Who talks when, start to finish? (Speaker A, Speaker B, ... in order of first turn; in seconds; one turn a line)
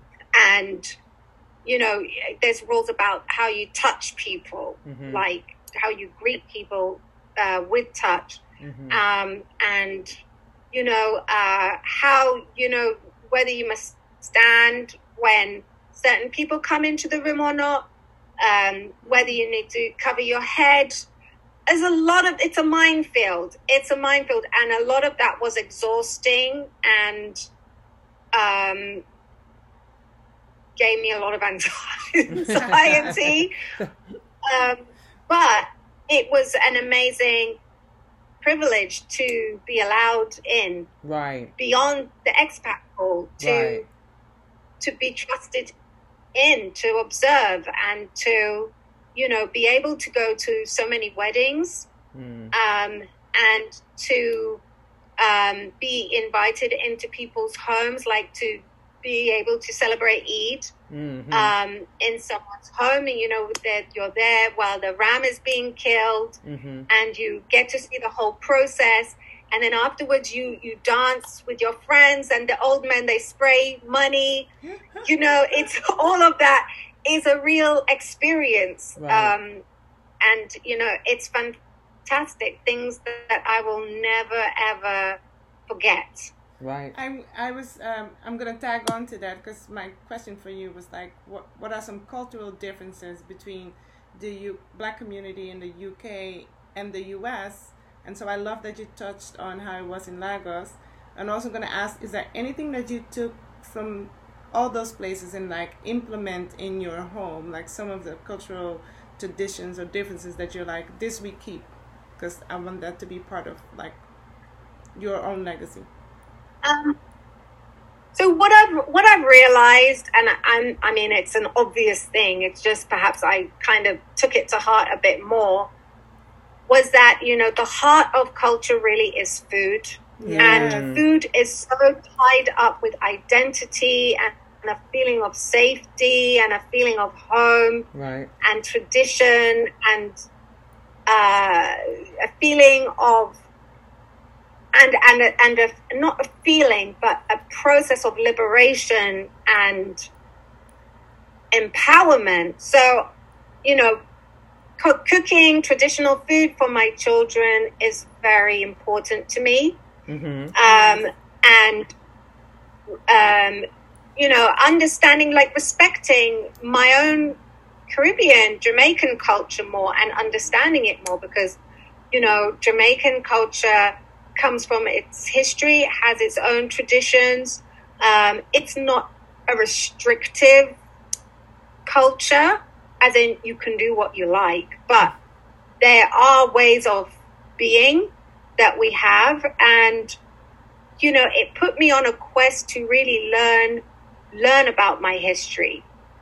Speaker A: 0.3-0.9
Speaker A: 1.6-10.2
Speaker B: 4.9-5.2
Speaker B: 8.6-9.0
Speaker A: 10.7-17.9
Speaker A: 18.4-21.0
Speaker A: 21.7-27.5
Speaker A: 28.3-29.0
Speaker A: 30.8-33.5
Speaker B: 32.5-33.9
Speaker A: 34.4-37.6
Speaker A: 38.4-40.9
Speaker B: 41.0-41.5
Speaker A: 41.6-43.9
Speaker B: 43.4-43.9
Speaker A: 44.8-45.7
Speaker A: 46.4-51.9
Speaker B: 52.1-52.5
Speaker A: 52.5-54.6
Speaker A: 55.2-60.7
Speaker B: 60.9-61.5
Speaker A: 61.3-74.5
Speaker B: 66.4-66.9
Speaker C: 74.6-75.1
Speaker A: 75.0-79.6
Speaker B: 79.0-79.3
Speaker A: 80.2-86.3
Speaker B: 86.6-86.9
Speaker C: 86.9-114.0
Speaker C: 115.0-115.9
Speaker A: 116.6-117.0
Speaker A: 118.2-125.7
Speaker A: 126.7-137.9
Speaker C: 130.2-130.9
Speaker B: 130.2-131.0
Speaker B: 137.9-138.3
Speaker A: 138.4-140.2
Speaker A: 141.1-143.4
Speaker A: 144.7-150.1
Speaker A: 151.5-153.1
Speaker A: 153.6-154.0
Speaker A: 154.8-159.8
Speaker B: 160.1-160.6
Speaker A: 160.6-161.9
Speaker C: 160.7-161.0
Speaker A: 163.1-163.7
Speaker A: 164.2-167.4
Speaker A: 167.9-171.6
Speaker A: 172.1-180.8
Speaker A: 181.9-185.1
Speaker A: 185.8-190.2
Speaker A: 191.0-195.8